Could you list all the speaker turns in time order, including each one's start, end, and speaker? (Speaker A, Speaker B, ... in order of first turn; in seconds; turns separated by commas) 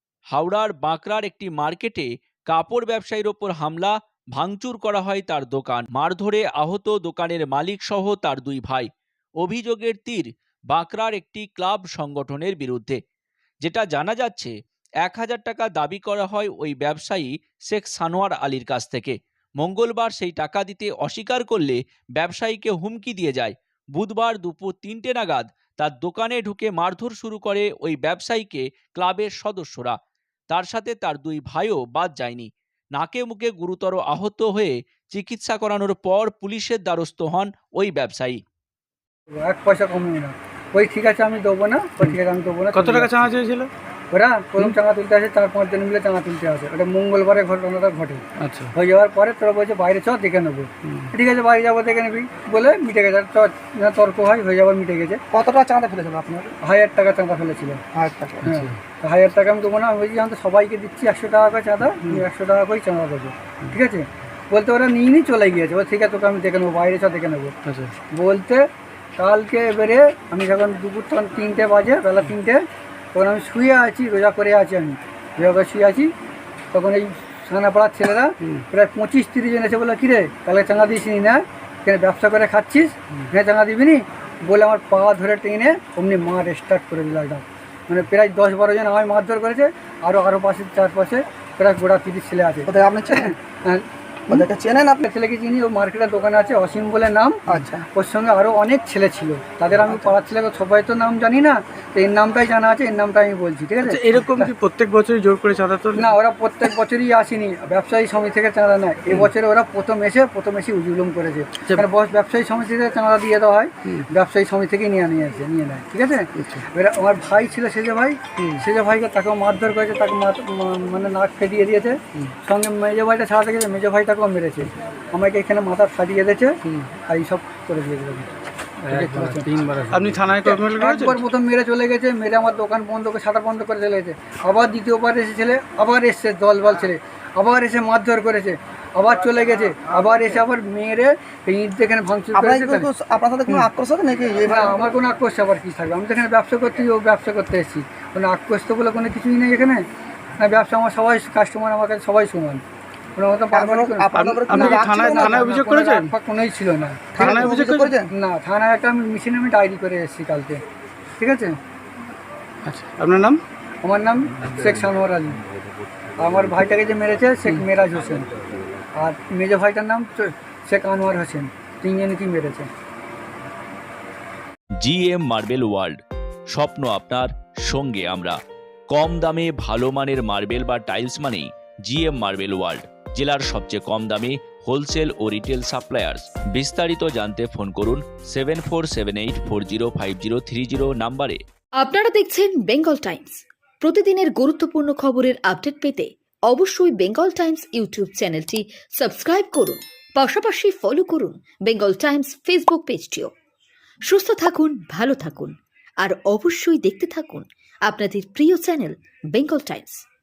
Speaker A: 0.3-13.0, Speaker A: 13.6-30.0, Speaker A: 30.5-38.4, Speaker B: 39.3-43.3, Speaker C: 42.7-43.7, Speaker B: 44.1-48.2, Speaker C: 48.4-48.7, Speaker B: 48.8-55.2, Speaker C: 50.8-51.1, Speaker D: 55.3-56.5, Speaker B: 56.6-57.8, Speaker D: 57.9-58.5, Speaker C: 58.5-58.8, Speaker B: 58.5-67.5, Speaker C: 67.7-67.9, Speaker B: 68.1-68.7, Speaker B: 69.2-72.6, Speaker B: 73.1-76.1, Speaker B: 76.7-92.7, Speaker D: 92.7-93.3, Speaker B: 93.3-93.8, Speaker D: 94.3-95.0, Speaker B: 95.0-104.5, Speaker D: 97.5-97.8, Speaker C: 103.8-106.1, Speaker B: 106.0-128.3, Speaker C: 116.4-116.6, Speaker C: 118.4-118.6, Speaker C: 126.6-126.9, Speaker C: 128.8-131.2, Speaker B: 128.9-129.6, Speaker B: 130.4-142.9, Speaker D: 142.3-144.8, Speaker B: 144.5-149.9, Speaker B: 150.4-152.6, Speaker B: 153.2-157.3, Speaker D: 153.5-155.5, Speaker C: 154.2-156.1, Speaker D: 157.2-158.1, Speaker C: 157.2-157.9, Speaker B: 158.1-160.6, Speaker B: 161.2-161.6, Speaker C: 162.7-163.4, Speaker B: 163.8-165.4, Speaker B: 166.2-168.3, Speaker B: 169.0-172.7, Speaker A: 174.8-176.0, Speaker A: 176.5-178.4, Speaker A: 178.9-191.4, Speaker E: 191.8-203.3, Speaker E: 204.1-210.1